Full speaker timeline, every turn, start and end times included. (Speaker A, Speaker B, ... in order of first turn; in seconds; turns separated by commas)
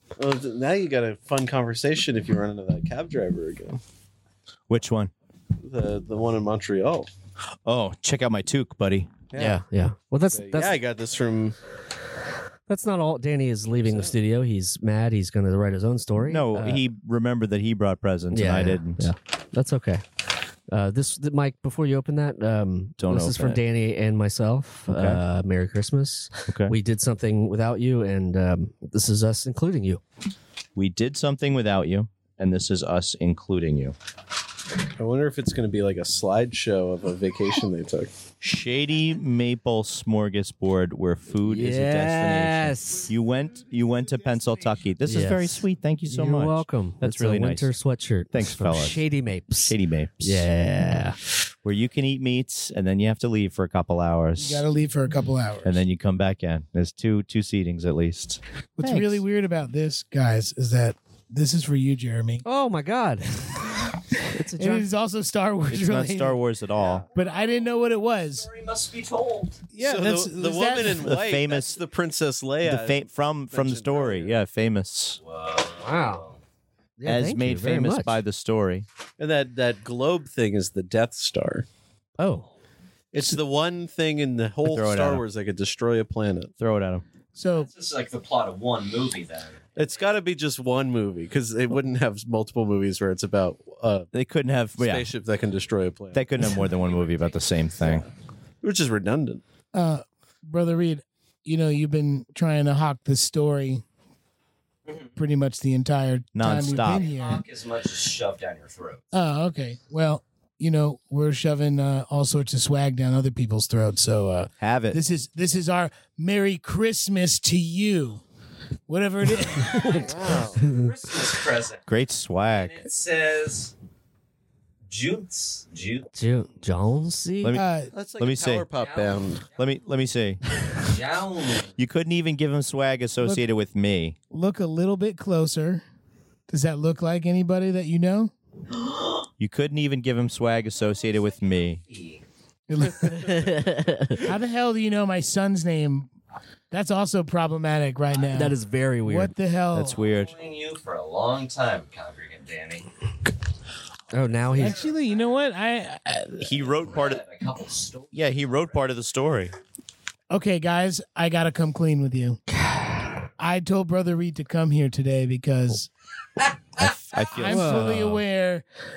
Speaker A: 0.2-3.8, Speaker B: 4.7-5.1, Speaker A: 5.6-7.1, Speaker B: 7.7-9.2, Speaker A: 9.3-9.6, Speaker C: 9.4-10.8, Speaker A: 10.2-11.6, Speaker C: 12.7-16.8, Speaker A: 13.8-14.1, Speaker B: 16.2-19.1, Speaker C: 18.3-20.0, Speaker C: 20.7-30.0, Speaker B: 23.0-23.6, Speaker B: 24.9-25.2, Speaker B: 26.5-26.8, Speaker B: 30.8-34.0, Speaker A: 35.0-38.1, Speaker B: 38.4-47.7, Speaker C: 41.4-43.1, Speaker C: 45.0-51.2, Speaker B: 48.3-49.0, Speaker B: 49.6-50.5, Speaker B: 51.6-54.6, Speaker D: 54.4-55.8, Speaker B: 55.6-59.2, Speaker D: 58.8-62.4, Speaker C: 62.5-64.9, Speaker D: 64.6-66.4, Speaker B: 65.7-67.0, Speaker A: 66.8-67.0, Speaker E: 66.8-69.6, Speaker D: 67.2-68.5, Speaker D: 69.7-71.1, Speaker A: 69.8-74.3, Speaker B: 70.9-71.8, Speaker B: 72.6-75.2, Speaker E: 75.2-76.4, Speaker C: 75.8-76.2, Speaker C: 77.0-78.2, Speaker B: 77.1-78.9, Speaker A: 79.2-81.7, Speaker C: 82.2-82.5, Speaker A: 83.1-86.5, Speaker B: 84.7-85.2, Speaker B: 86.6-87.0, Speaker D: 87.4-87.7, Speaker E: 87.5-90.2, Speaker A: 89.8-94.1, Speaker B: 94.1-95.1, Speaker A: 94.8-96.4, Speaker B: 96.1-98.0, Speaker E: 96.5-98.1, Speaker A: 98.6-99.4, Speaker D: 99.7-103.8, Speaker E: 104.9-105.1, Speaker D: 105.2-107.4, Speaker B: 106.3-107.1, Speaker E: 106.4-109.0, Speaker D: 109.1-118.2, Speaker B: 114.6-115.0, Speaker D: 118.9-120.5, Speaker A: 119.9-120.7, Speaker E: 120.6-121.9, Speaker B: 121.9-122.8, Speaker E: 122.5-123.7, Speaker E: 124.9-126.6, Speaker C: 126.2-127.6, Speaker B: 127.4-128.7, Speaker D: 127.5-127.9, Speaker A: 127.9-129.4, Speaker E: 128.8-129.8, Speaker B: 129.6-130.4, Speaker E: 130.8-131.8, Speaker B: 131.8-134.2, Speaker D: 133.2-133.4, Speaker D: 134.3-135.8, Speaker D: 136.5-138.3, Speaker B: 139.4-141.8, Speaker E: 140.7-142.2, Speaker D: 142.7-143.5, Speaker C: 143.2-144.2, Speaker D: 144.2-146.1, Speaker D: 146.7-150.0, Speaker C: 148.3-149.3, Speaker B: 149.7-150.3, Speaker E: 149.9-152.9, Speaker C: 154.1-154.8, Speaker E: 154.4-155.4, Speaker D: 154.6-156.6, Speaker B: 156.4-157.2, Speaker E: 156.8-158.7, Speaker B: 158.1-159.5, Speaker D: 160.3-162.4, Speaker C: 162.5-163.2, Speaker D: 163.4-165.9, Speaker B: 166.8-168.2, Speaker D: 167.3-168.7, Speaker C: 167.4-168.1